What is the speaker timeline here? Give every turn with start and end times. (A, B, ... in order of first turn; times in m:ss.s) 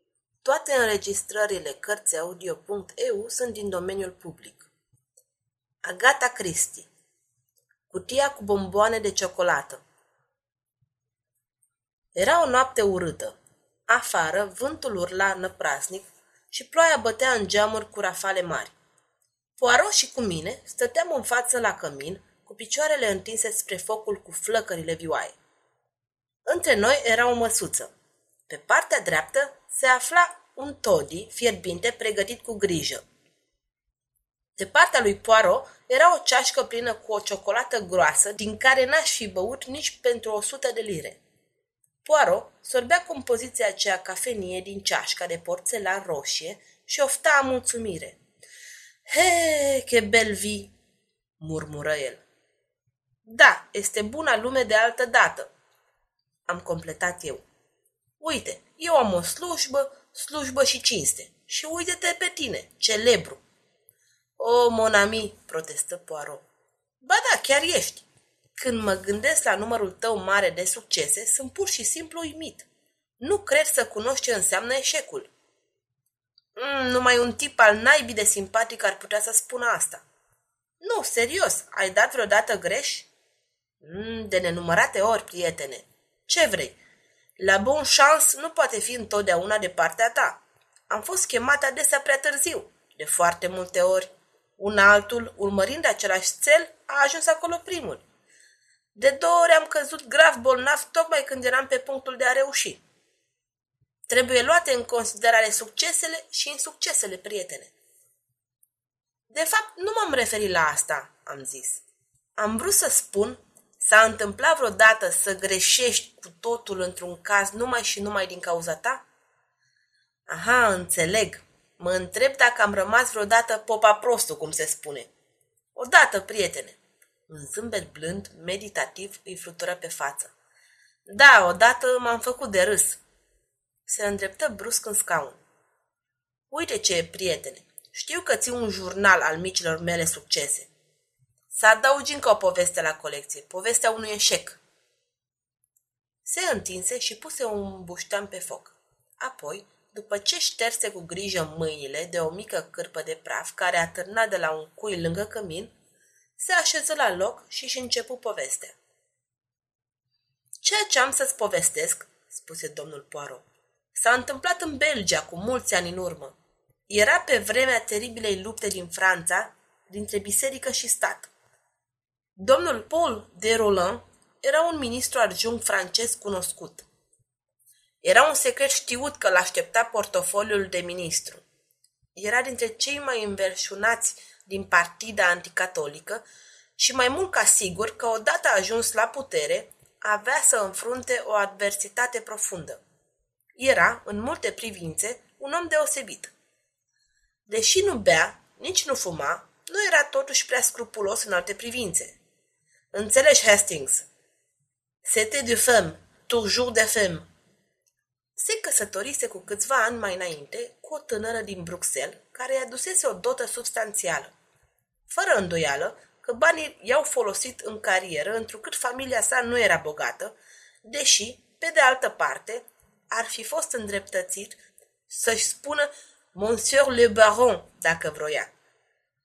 0:00.4-0:04.7 A
0:05.8-0:06.9 A
0:07.9-0:09.8 A
0:12.1-0:18.7 A
0:19.6-0:25.4 A
0:26.4-0:27.9 A
0:28.5-0:33.0 A
0:34.6-0:41.2 A
0:42.0-0:48.2 A
0:49.1-0:50.7 A
0:51.4-0:52.2 A
0:53.2-0:55.5 A
0:56.4-0:57.4 A
0:58.2-1:03.4 A
1:04.4-1:06.4 A
1:07.0-1:12.7 A
1:13.2-1:15.3 A
1:16.6-1:20.0 A
1:20.8-1:23.1 A
1:23.8-1:26.8 A
1:27.4-1:38.0 A
1:38.9-1:42.8 A
1:44.1-1:47.7 A
1:49.3-1:51.8 A
1:52.4-1:59.0 A
2:00.3-2:05.1 A
2:05.7-2:10.3 A
2:11.1-2:13.0 A
2:13.8-2:15.4 A
2:16.5-2:20.7 A
2:21.5-2:24.6 A
2:26.2-2:35.7 A
2:36.4-2:38.8 A
2:40.6-2:46.4 A
2:46.9-2:51.3 A
2:52.4-2:56.9 A
2:58.0-3:01.4 A
3:02.1-3:06.2 A
3:06.8-3:12.8 A
3:13.6-3:16.3 A
3:17.4-3:22.2 A
3:22.9-3:24.1 A
3:25.0-3:27.3 A
3:28.4-3:34.3 A
3:35.1-3:44.6 A
3:45.1-3:48.5 A